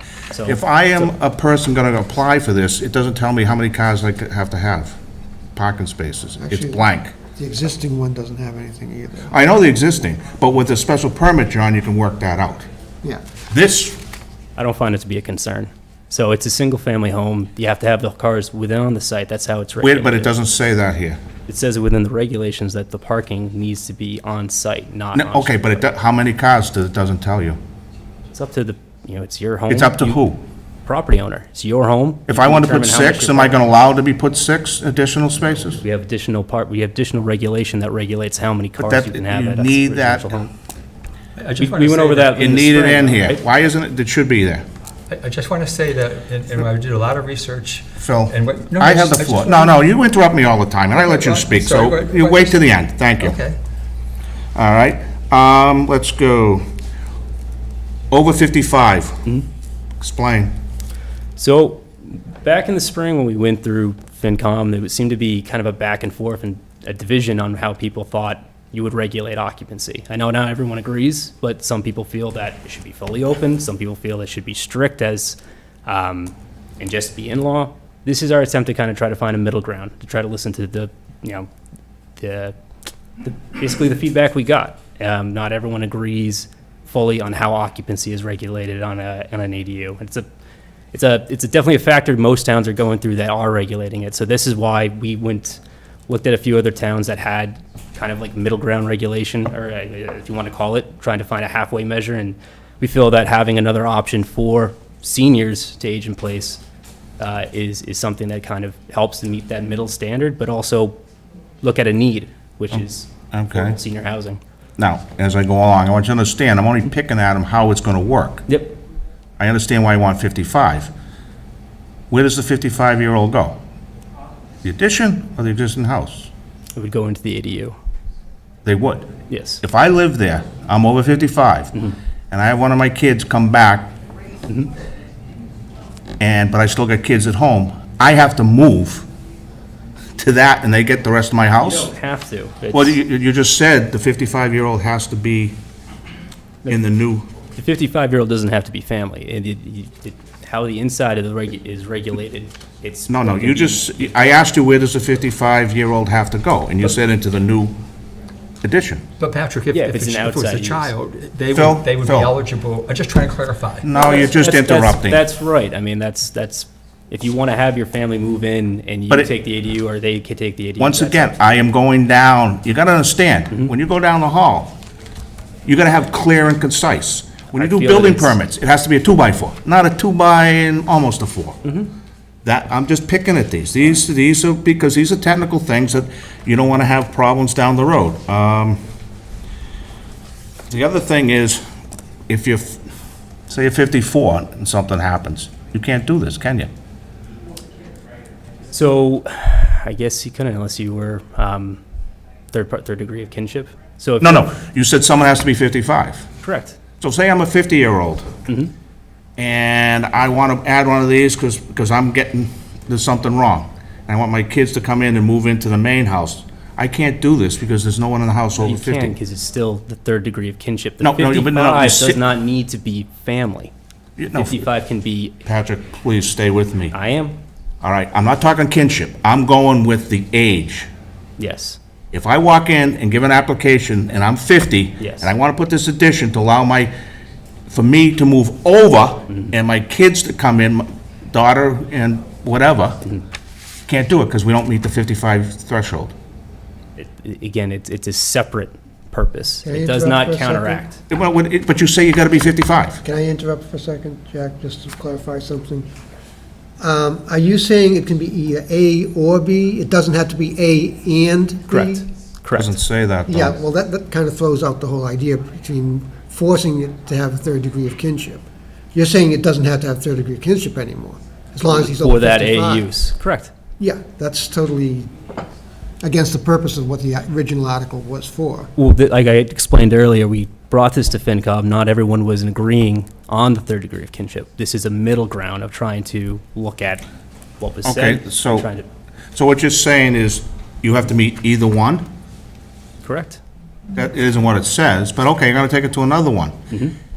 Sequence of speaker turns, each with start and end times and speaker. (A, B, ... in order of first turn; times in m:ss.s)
0:00.3-0:00.6 A
0:00.4-0:05.0 B
0:05.6-0:07.2 B
0:06.4-0:09.4 C
0:09.3-0:12.7 B
0:13.5-0:14.0 B
0:14.6-0:20.3 A
0:19.8-0:21.2 B
0:21.5-0:25.8 A
0:25.1-0:27.6 B
0:28.3-0:30.2 A
0:29.7-0:30.4 B
0:30.9-0:33.7 A
0:32.3-0:35.8 B
0:35.8-0:40.5 A
0:38.8-0:40.4 B
0:41.4-0:42.4 D
0:41.6-0:43.4 A
0:42.4-0:44.6 B
0:45.1-0:49.8 D
0:48.0-0:53.4 B
0:50.9-0:52.7 D
0:53.2-0:53.6 D
0:54.5-0:56.6 B
0:58.1-0:59.2 B
1:00.0-1:00.5 B
1:01.4-1:21.5 A
1:22.2-1:22.6 A
1:23.2-1:30.2 A
1:30.9-1:46.6 A
1:47.2-1:51.0 A
1:51.6-1:54.4 A
1:52.7-1:53.8 B
1:54.8-1:58.4 B
1:58.5-1:58.8 A
1:59.4-2:00.9 B
2:02.1-2:03.6 B
2:04.6-2:06.3 B
2:06.8-2:07.7 A
2:08.6-2:13.9 B
2:09.3-2:09.6 A
2:16.2-2:19.1 B
2:20.2-2:21.9 B
2:21.6-2:23.0 A
2:22.7-2:25.6 B
2:26.7-2:27.3 B
2:27.6-2:34.0 A
2:33.1-2:37.8 B
2:38.6-2:39.0 B
2:39.2-2:43.9 D
2:39.7-2:40.9 A
2:41.5-2:42.3 B
2:43.8-2:45.2 B
2:43.9-2:51.5 A
2:50.8-2:54.8 B
2:55.6-3:01.6 B
2:57.5-2:58.4 A
3:01.6-3:01.9 A
3:02.4-3:08.8 B
3:10.7-3:11.6 B
3:12.3-3:12.8 B
3:13.5-3:16.7 B
3:18.7-3:21.8 A
3:22.5-3:24.5 A
3:24.2-3:26.3 B
3:26.4-3:26.8 A
3:27.0-3:28.3 B
3:29.4-3:39.2 B
3:38.6-3:43.7 A
3:41.0-3:42.2 B
3:44.2-3:44.7 B
3:44.3-3:45.4 A
3:45.4-3:46.9 B
3:46.9-3:47.4 A
3:47.8-3:50.9 B
3:51.4-3:51.8 A
3:52.1-3:56.9 B
3:55.0-3:55.3 A
3:57.7-4:03.0 B
4:03.9-4:06.1 B
4:07.0-4:11.0 A
4:09.6-4:10.8 C
4:11.1-4:13.0 B
4:13.0-4:15.9 C
4:16.8-4:22.1 C
4:21.7-4:22.7 A
4:22.5-4:23.6 B
4:23.3-4:32.9 C
4:31.7-4:33.5 A
4:33.8-4:35.1 C
4:36.0-4:38.7 C
4:38.8-4:47.1 A
4:47.6-4:48.8 A
4:47.8-4:48.7 B
4:49.4-4:52.0 B
4:53.0-4:53.4 A
4:53.9-4:56.6 B